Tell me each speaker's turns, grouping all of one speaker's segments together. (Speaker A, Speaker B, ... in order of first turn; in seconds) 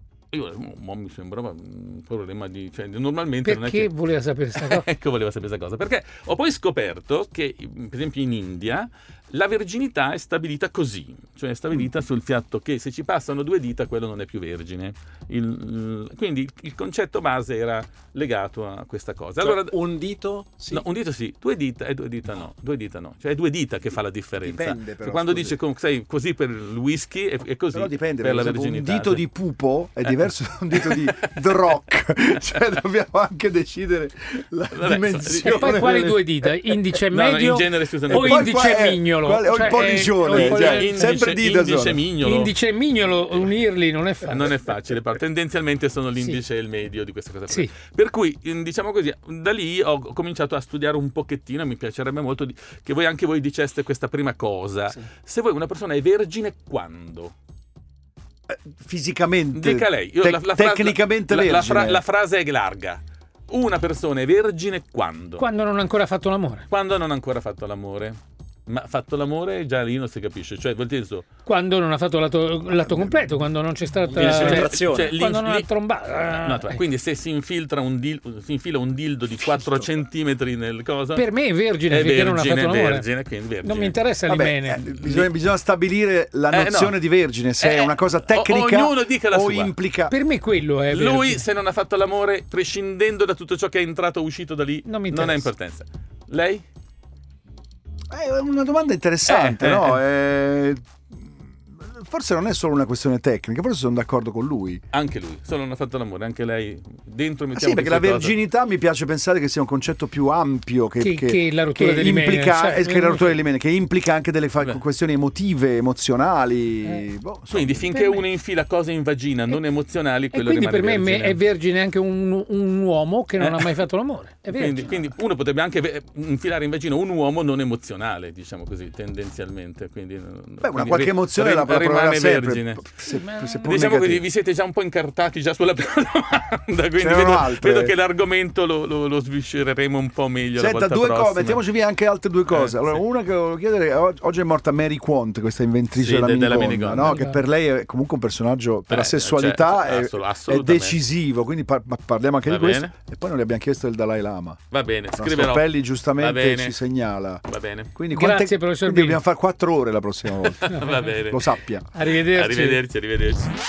Speaker A: 0.3-3.9, 4.5-19.7, 20.7-29.2, 30.7-31.5, 34.7-36.1, 37.1-38.6, 39.6-42.5, 44.2-57.3, 59.5-65.4, 66.7-71.2, 74.1-75.7, 76.3-81.2, 81.9-84.0, 85.0-85.3, 86.5-87.0, 87.6-89.7, 90.9-96.6, 99.3-100.0, 104.9-108.3, 117.5-121.4, 123.4-123.8, 124.5-132.9, 133.6-141.6, 142.5-143.0, 145.9-147.1, 148.9-151.0, 152.4-152.9, 154.7-156.8, 157.5-157.9, 160.4-161.5, 162.3-163.5
Speaker B: 3.4-4.8, 35.4-41.3, 42.2-44.5, 65.4-66.7, 71.5-76.8, 81.1-83.0, 83.6-84.8, 90.1-91.4, 94.8-95.5, 111.0-113.4, 117.9-118.2, 120.3-124.9, 133.1-133.8, 147.0-147.4, 158.1-159.2, 160.7-161.1, 161.9-162.8
Speaker C: 19.4-20.8, 74.0-75.2
Speaker D: 24.4-25.6, 27.7-36.5, 38.1-42.0, 58.5-62.0, 72.9-73.3, 84.3-90.1, 98.1-104.8, 107.5-117.9, 130.6-134.2, 137.0-137.9, 140.6-154.6, 155.2-157.4, 157.9-161.8